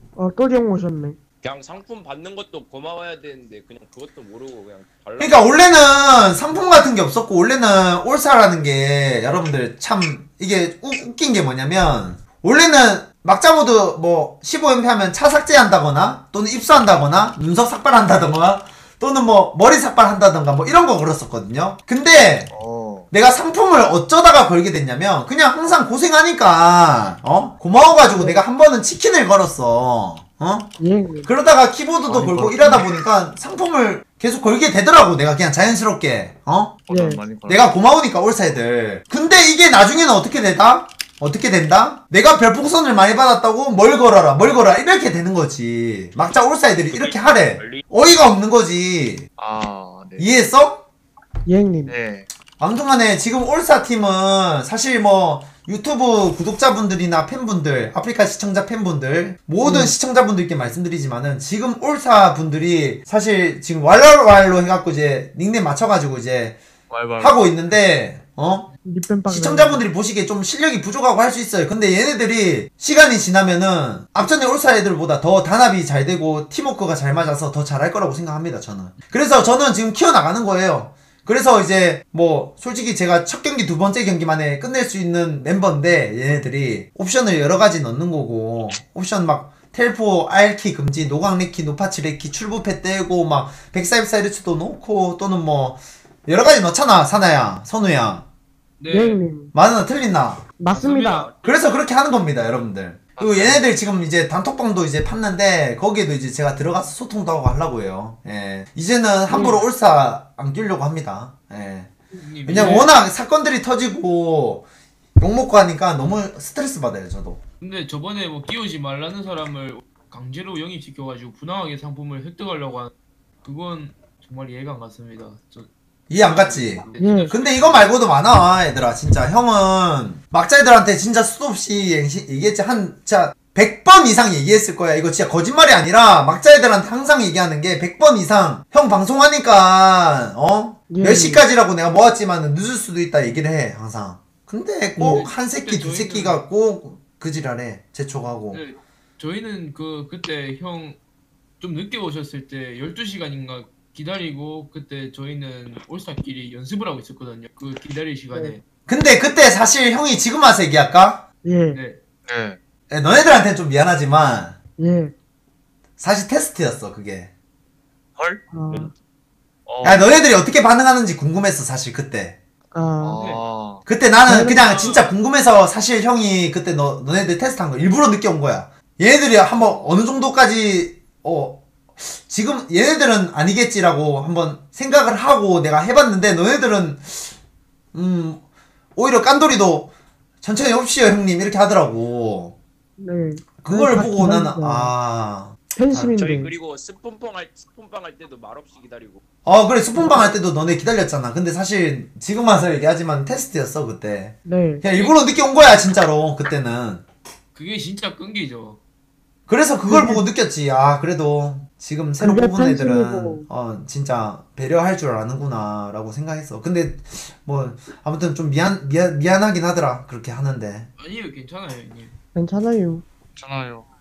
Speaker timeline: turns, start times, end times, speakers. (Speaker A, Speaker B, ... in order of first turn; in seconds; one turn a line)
Speaker A: 0.1-1.2
Speaker B: 1.4-5.6
Speaker C: 5.2-22.5
Speaker D: 22.5-23.1
Speaker C: 23.1-30.7
Speaker A: 28.0-28.4
Speaker A: 30.8-31.3
Speaker C: 31.2-36.8
Speaker D: 32.0-32.9
Speaker D: 36.9-37.7
Speaker A: 36.9-37.2
Speaker C: 37.5-49.3
Speaker B: 46.9-47.8
Speaker D: 49.4-50.3
Speaker C: 50.2-50.8
Speaker A: 51.5-52.0
Speaker D: 51.9-52.3
Speaker C: 52.6-66.6
Speaker A: 59.6-59.9
Speaker D: 66.9-67.5
Speaker C: 67.2-68.7
Speaker A: 68.8-69.8
Speaker C: 69.3-98.2
Speaker E: 98.8-99.2
Speaker A: 98.9-99.5
Speaker C: 99.5-100.5
Speaker A: 100.6-101.3
Speaker E: 100.7-101.3
Speaker C: 101.4-111.9
Speaker D: 103.2-103.6
Speaker E: 109.3-109.7
Speaker E: 112.1-112.9
Speaker C: 112.5-114.7
Speaker C: 115.2-117.4
Speaker E: 117.6-122.9
Speaker E: 123.4-127.9
Speaker C: 126.1-148.6
Speaker A: 127.0-127.3
Speaker A: 140.9-141.4
Speaker E: 145.0-146.4
Speaker E: 148.5-151.0
Speaker E: 151.6-158.6
Speaker C: 158.9-161.2
Speaker A: 161.4-161.8
Speaker E: 161.7-162.0
Speaker D: 162.3-162.6
Speaker C: 162.9-164.6
Speaker A: 164.8-165.1
Speaker C: 166.0-167.3
Speaker D: 168.2-168.8
Speaker A: 168.5-168.9
Speaker D: 169.7-170.0
Speaker C: 169.8-172.4
Speaker A: 172.7-173.2
Speaker D: 173.0-173.8
Speaker E: 173.2-173.4
Speaker C: 173.8-187.3
Speaker A: 174.3-174.7
Speaker E: 174.6-175.1
Speaker E: 179.5-179.9
Speaker C: 187.9-188.4
Speaker C: 188.9-189.9
Speaker C: 190.4-192.5
Speaker A: 193.0-194.9
Speaker C: 193.6-196.1
Speaker A: 195.7-196.5
Speaker B: 196.1-199.2
Speaker C: 199.4-207.0
Speaker A: 199.9-200.3
Speaker A: 204.4-204.8
Speaker E: 207.5-208.8
Speaker C: 209.5-220.9
Speaker A: 209.8-210.2
Speaker A: 212.2-213.5
Speaker E: 221.0-222.1
Speaker A: 222.3-223.0
Speaker D: 223.3-223.9